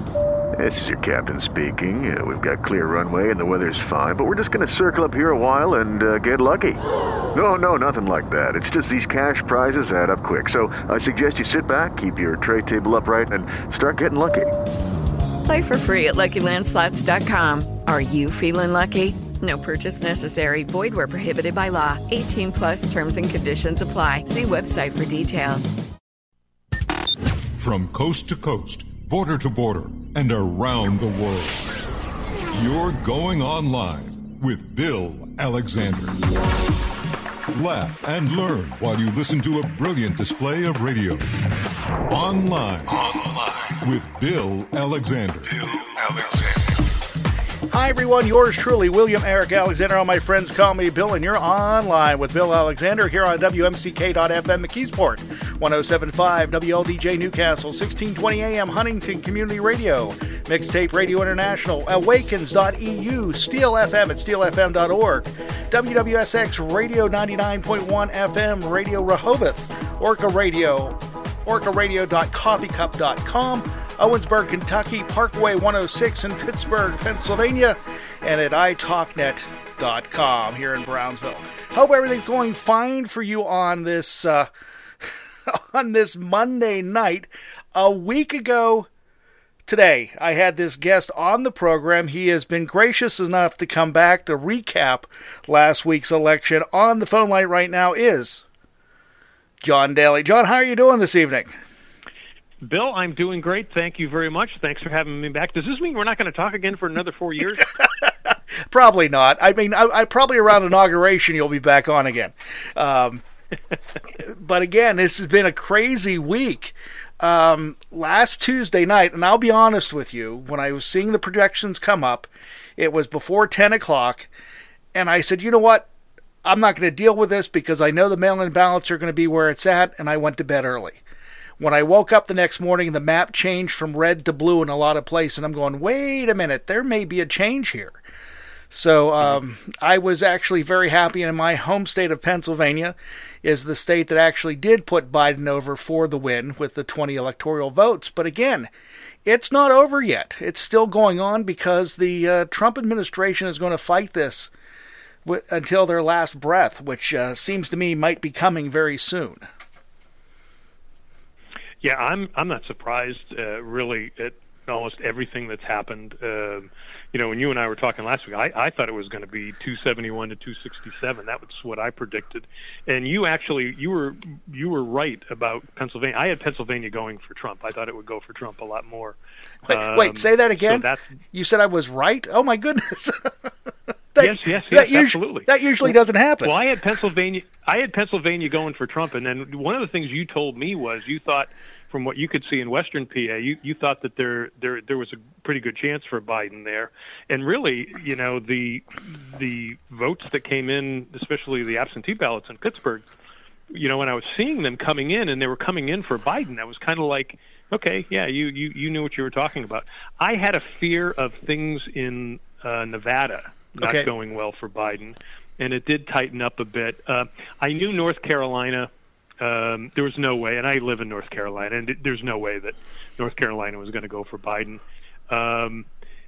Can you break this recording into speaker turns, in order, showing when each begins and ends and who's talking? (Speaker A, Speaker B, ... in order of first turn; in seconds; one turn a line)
Speaker A: 0.5-14.6
Speaker B: 15.4-25.8
Speaker C: 27.5-31.7
Speaker C: 32.5-36.2
Speaker C: 37.5-41.3
Speaker C: 42.1-46.7
Speaker D: 47.7-84.5
Speaker D: 85.0-88.9
Speaker D: 89.7-98.4
Speaker D: 99.6-101.5
Speaker E: 102.6-107.7
Speaker D: 107.6-113.2
Speaker D: 114.1-124.3
Speaker D: 124.9-125.9
Speaker D: 126.4-131.0
Speaker D: 131.6-138.0
Speaker D: 138.7-148.7
Speaker D: 149.2-154.5
Speaker D: 155.2-159.4
Speaker E: 161.8-179.2
Speaker D: 179.7-183.5
Speaker E: 179.7-181.2
Speaker D: 184.1-186.6
Speaker E: 184.2-203.1
Speaker E: 203.7-225.8
Speaker D: 213.8-214.1